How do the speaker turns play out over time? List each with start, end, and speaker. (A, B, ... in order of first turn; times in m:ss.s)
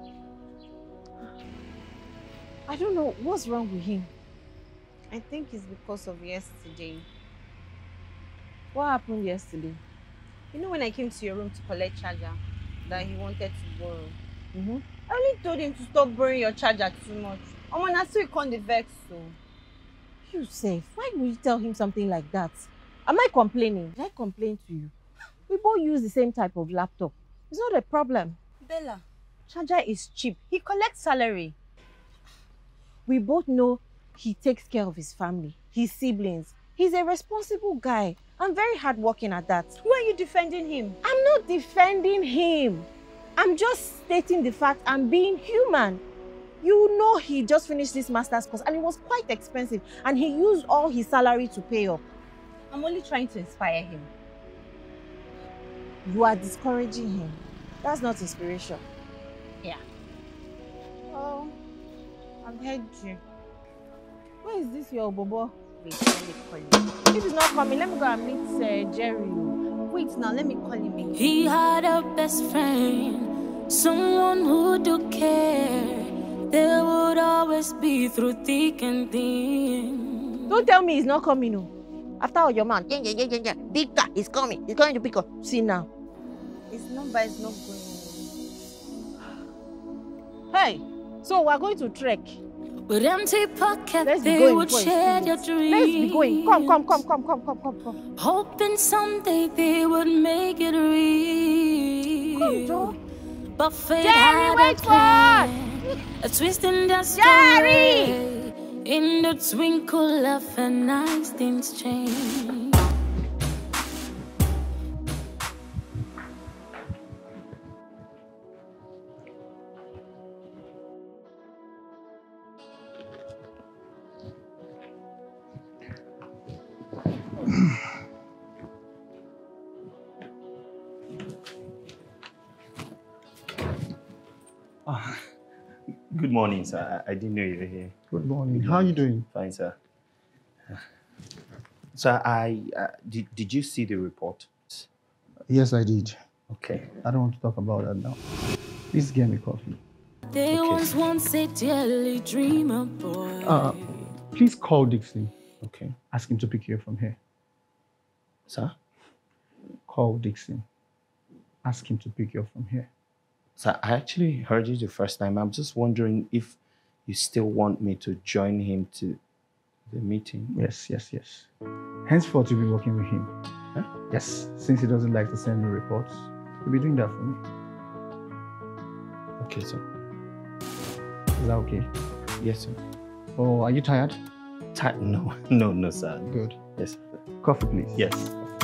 0:02.7-0:04.1 A
0:05.1-0:07.0 B
0:08.7-0:09.8 A
0:10.5-0:14.2 B
0:14.5-0:14.8 A
0:15.1-0:19.4 B
0:20.3-0:24.9 A
0:25.5-0:28.4 A
0:28.6-0:31.6 B
0:33.0-0:39.7 A
0:39.8-0:41.0 B
0:41.0-0:46.0 A
0:46.6-0:52.0 A
0:52.7-0:54.1 B
0:56.0-0:58.8 A
1:01.1-1:01.5 B
1:02.4-1:03.2 B
1:04.4-1:05.6 A
1:05.8-1:06.8 B
1:07.1-1:09.6 A
1:09.9-1:11.2 B
1:11.1-1:20.5 C
1:20.5-1:25.9 A
1:26.7-1:28.2 B
1:30.5-1:32.4 A
1:32.9-1:37.0 C
1:34.0-1:38.0 A
1:38.2-1:42.9 C
1:42.4-1:43.0 A
1:43.6-1:52.8 C
1:44.0-1:45.5 A
1:47.2-1:48.1 A
2:14.8-2:15.1 D
2:16.1-2:17.9 D
2:18.1-2:19.2 E
2:18.5-2:19.8 D
2:21.9-2:24.9 D
2:25.5-2:26.2 E
2:26.5-2:26.9 D
2:26.9-2:28.2 E
2:28.9-2:29.8 E
2:30.3-2:33.8 C
2:30.5-2:30.9 D
2:33.5-2:35.3 E
2:35.6-2:36.0 D
2:36.1-2:37.2 E
2:38.5-2:38.7 D
2:39.9-2:40.6 E
2:41.6-2:42.9 E
2:43.6-2:49.2 D
2:49.9-2:50.5 D
2:50.5-2:51.5 E
2:52.0-2:53.3 E
2:54.1-2:57.4 E
2:59.4-2:59.8 D
3:01.4-3:01.9 E
3:02.4-3:02.8 D
3:03.4-3:04.2 E
3:04.7-3:07.0 D
3:06.3-3:06.6 E
3:07.4-3:08.1 E
3:08.0-3:08.3 D